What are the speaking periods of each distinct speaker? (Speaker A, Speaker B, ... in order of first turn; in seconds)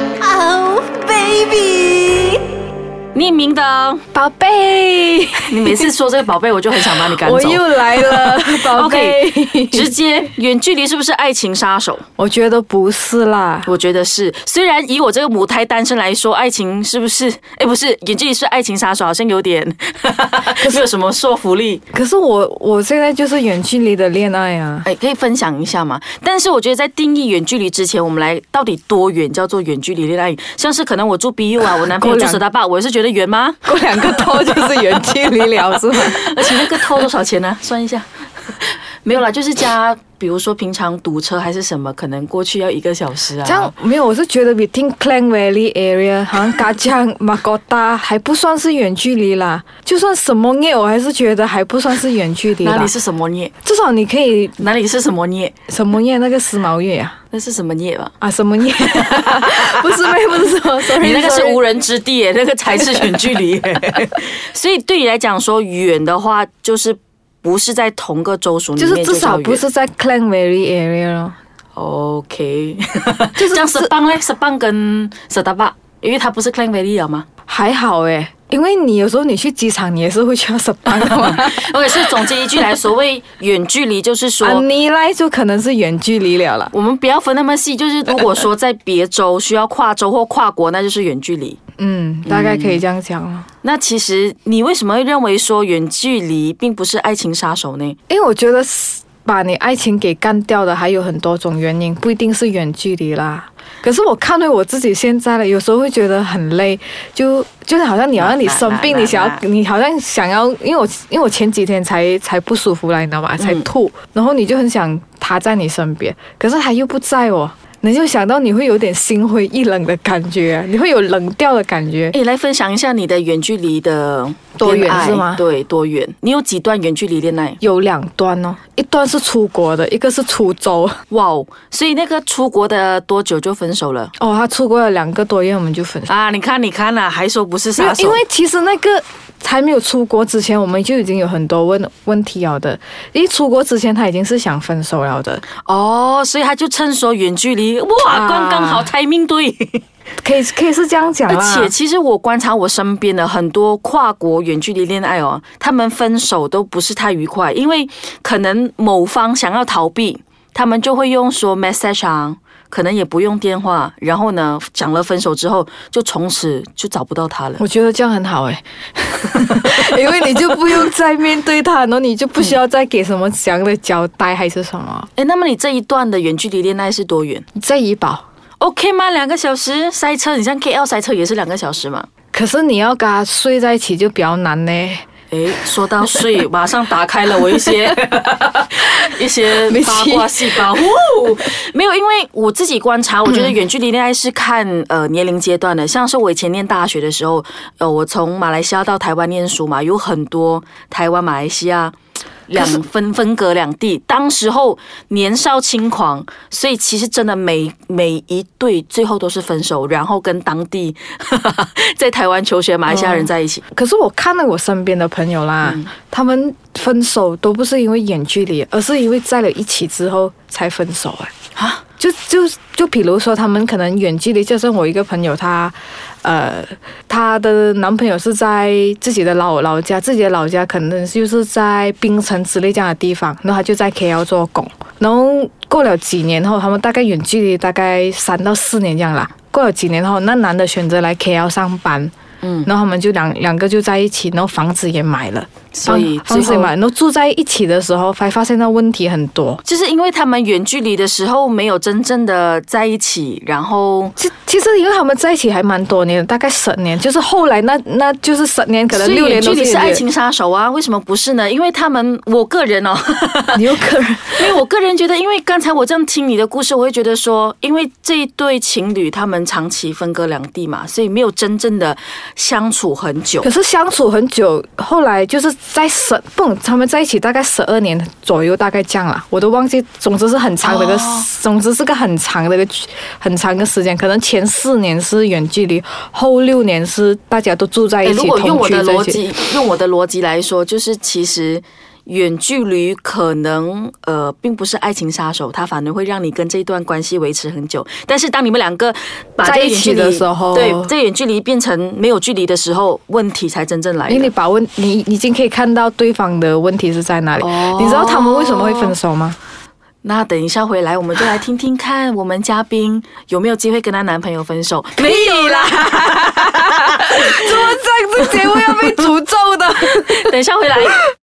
Speaker A: 0.2-2.3, 4.1-5.9, 6.8-9.9, 12.2-13.7, 21.9-24.9, 31.8-32.4, 33.7-36.9, 43.4-52.9, 53.6-54.6, 55.7-57.2, 58.2-61.6, 62.7-63.2, 68.8-71.4, 73.4-73.9, 77.5-82.4, 84.4-86.7, 91.8-93.5, 98.1-122.2, 124.6-125.4, 127.6-131.0, 134.2-136.1, 137.8-145.4, 148.0-148.9, 150.2-151.7, 167.6-175.1, 177.6-178.2, 182.3-185.1, 189.7-190.7, 193.3-193.6, 212.9-221.3, 222.0-242.1, 242.7-249.6, 254.2-260.1, 263.5-264.5, 273.4-289.2, 299.4-300.9, 304.1-309.4, 315.0-321.0
Speaker B: 3.1-4.0, 5.5-12.1, 13.7-21.8, 24.8-43.7, 52.6-53.5, 54.6-55.5, 57.3-58.1, 58.9-59.2, 60.9-69.7, 71.8-77.3, 80.9-84.7, 86.7-91.6, 92.3-92.8, 93.6-98.0, 108.2-109.4, 113.4-113.7, 122.1-127.6, 131.1-134.1, 136.1-138.2, 145.7-149.8, 151.3-167.7, 175.2-177.5, 178.6-182.1, 185.3-201.9, 202.5-213.6, 215.6-215.9, 221.6-221.8, 242.4-242.7, 245.7-246.8, 249.6-254.2, 258.9-263.7, 264.4-273.5, 280.6-281.3, 288.0-304.3, 307.4-309.0, 310.0-318.9, 320.1-321.0